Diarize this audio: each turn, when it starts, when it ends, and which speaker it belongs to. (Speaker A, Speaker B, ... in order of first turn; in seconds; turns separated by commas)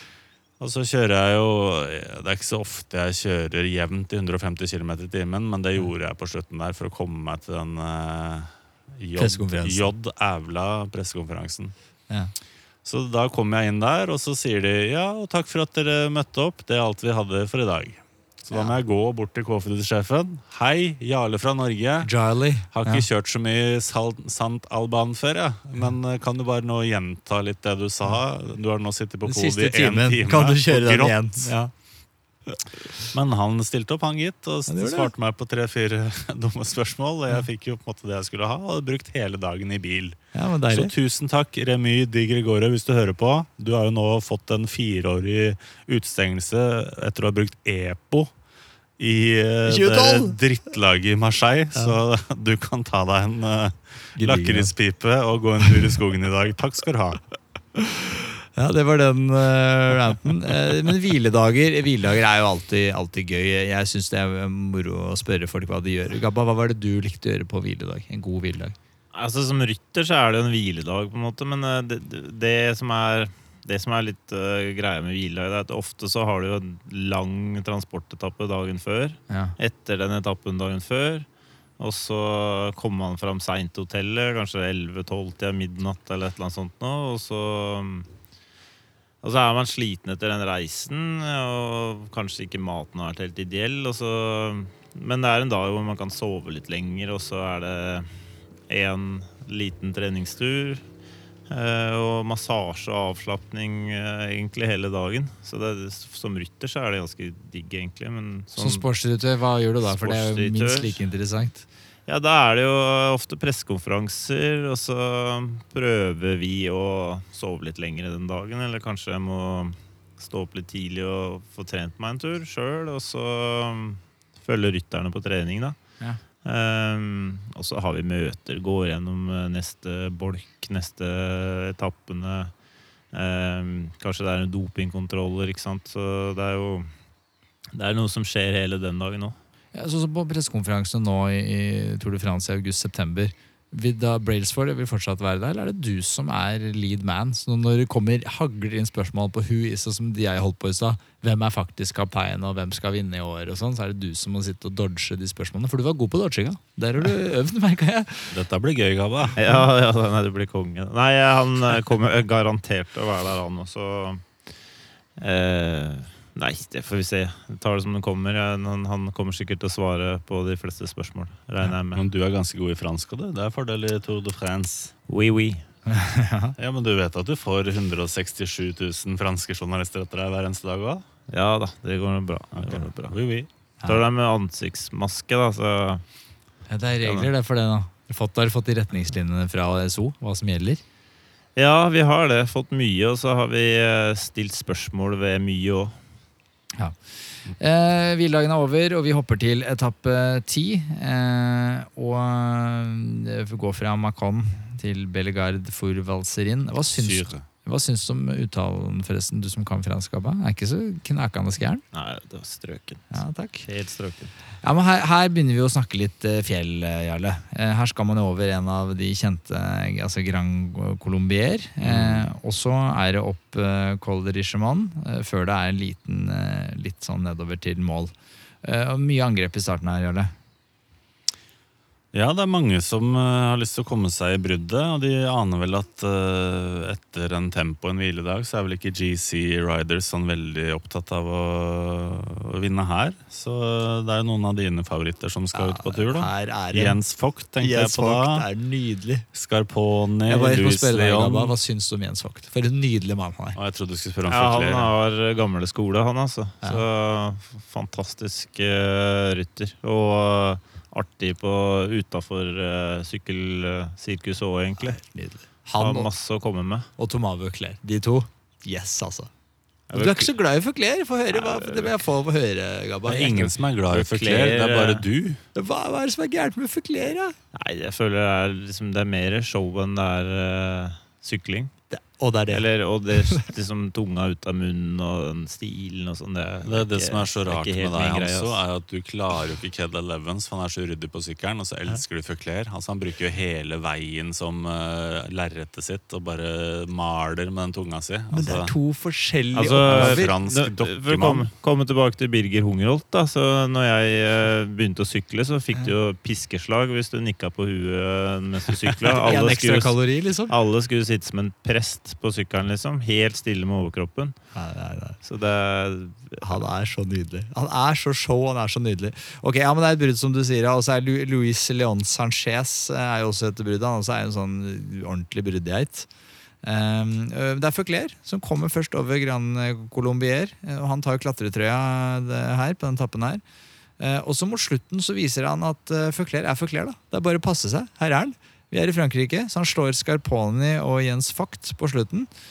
Speaker A: 0.6-11.7, Speaker B: 9.2-9.9, Speaker A: 12.8-22.1, Speaker B: 22.0-23.1, Speaker A: 22.7-31.5, Speaker B: 29.2-31.7, Speaker A: 33.1-40.2, Speaker B: 34.7-35.1, Speaker B: 40.3-40.9, Speaker A: 40.7-48.3, Speaker A: 49.0-57.2, Speaker B: 49.6-50.4, Speaker B: 54.2-54.7, Speaker B: 58.5-68.8, Speaker C: 69.1-81.3, Speaker C: 81.8-88.1, Speaker C: 89.2-98.2, Speaker C: 98.7-100.8, Speaker C: 101.5-108.8, Speaker B: 108.6-111.7, Speaker C: 109.8-111.0, Speaker C: 112.1-125.8, Speaker C: 126.4-132.5, Speaker C: 133.1-136.9, Speaker C: 137.7-139.4, Speaker B: 139.7-158.4, Speaker A: 158.3-159.4, Speaker C: 159.4-164.3, Speaker C: 165.2-172.0, Speaker A: 171.9-174.9, Speaker C: 175.1-175.6, Speaker B: 175.8-176.6, Speaker A: 176.6-181.1, Speaker C: 181.3-183.2, Speaker A: 182.6-183.5, Speaker C: 183.8-186.0, Speaker B: 186.7-190.8, Speaker C: 187.0-187.3, Speaker C: 191.6-196.0, Speaker B: 197.6-211.8, Speaker A: 207.0-207.4, Speaker C: 211.9-214.3, Speaker B: 213.1-213.7, Speaker B: 214.6-230.3, Speaker A: 221.8-222.2, Speaker A: 232.1-248.4, Speaker B: 245.5-247.0, Speaker B: 247.6-249.3, Speaker A: 249.3-251.6, Speaker B: 250.3-253.6, Speaker A: 253.6-254.9, Speaker C: 254.3-265.0, Speaker B: 264.8-266.1, Speaker C: 265.8-266.9, Speaker B: 267.0-269.3, Speaker C: 269.9-270.3, Speaker B: 269.9-273.5, Speaker C: 271.3-272.0, Speaker A: 273.1-275.4, Speaker C: 273.9-275.1, Speaker B: 275.6-277.4, Speaker C: 277.5-281.7, Speaker B: 281.9-282.6, Speaker C: 282.5-288.6, Speaker A: 286.6-298.7, Speaker B: 298.3-300.3, Speaker C: 299.6-310.0, Speaker A: 299.9-301.5, Speaker B: 309.2-310.5, Speaker C: 310.5-314.4, Speaker B: 314.6-315.2, Speaker C: 315.2-316.6, Speaker B: 316.4-326.1, Speaker B: 326.6-333.4, Speaker B: 334.0-342.3